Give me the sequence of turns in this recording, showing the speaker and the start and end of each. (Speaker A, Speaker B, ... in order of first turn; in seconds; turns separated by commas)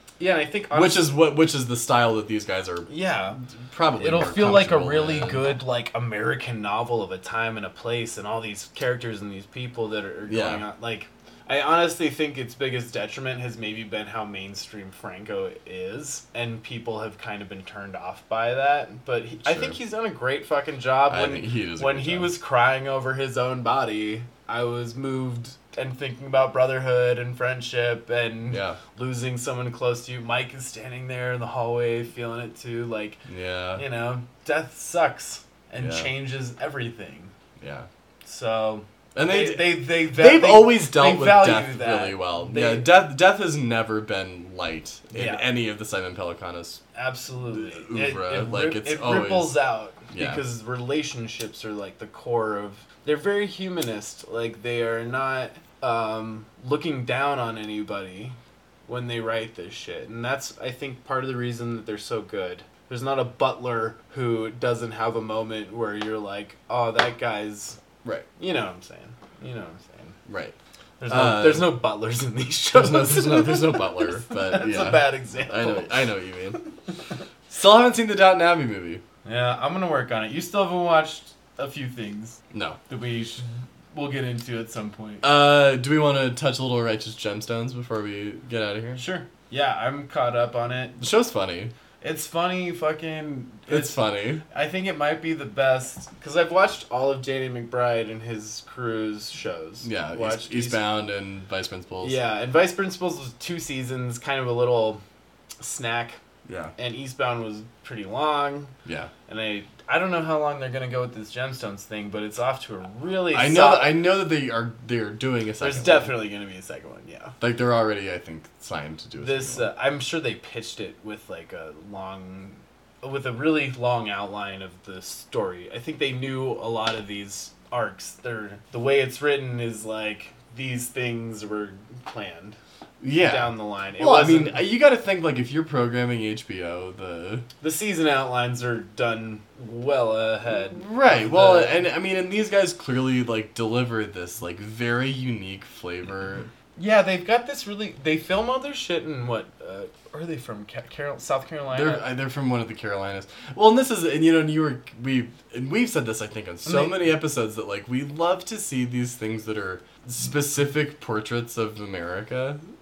Speaker A: 0.2-1.1, Speaker B: 0.7-2.9, Speaker A: 2.9-3.4, Speaker B: 3.6-5.5, Speaker A: 4.0-33.2, Speaker B: 10.3-10.7, Speaker B: 19.4-19.8, Speaker B: 21.1-22.3, Speaker B: 28.5-28.8, Speaker B: 33.3-33.8, Speaker A: 33.8-37.3, Speaker B: 35.8-36.1, Speaker B: 37.6-37.9, Speaker A: 38.2-43.0, Speaker B: 39.1-46.8, Speaker A: 45.1-45.5, Speaker A: 47.0-67.8, Speaker B: 47.5-49.6, Speaker B: 50.1-50.4, Speaker A: 68.4-70.2, Speaker B: 70.3-70.5, Speaker A: 71.0-76.0, Speaker B: 71.1-71.8, Speaker B: 72.7-76.6, Speaker B: 77.5-79.0, Speaker A: 79.2-85.2, Speaker B: 82.5-82.8, Speaker B: 85.2-89.0, Speaker A: 89.0-91.0, Speaker B: 91.0-91.7, Speaker A: 92.0-100.8, Speaker B: 93.7-94.4, Speaker B: 99.8-102.2, Speaker A: 102.0-105.0, Speaker A: 105.6-106.2, Speaker B: 106.5-106.7, Speaker A: 106.8-108.7, Speaker B: 108.8-109.1, Speaker A: 109.3-114.0, Speaker B: 113.3-116.1, Speaker A: 115.6-117.3, Speaker B: 117.4-119.7, Speaker A: 119.2-132.6, Speaker B: 133.0-137.5, Speaker A: 133.2-134.6, Speaker A: 137.6-141.8, Speaker B: 140.7-146.5, Speaker A: 146.8-152.1, Speaker B: 151.7-162.6, Speaker A: 156.6-157.1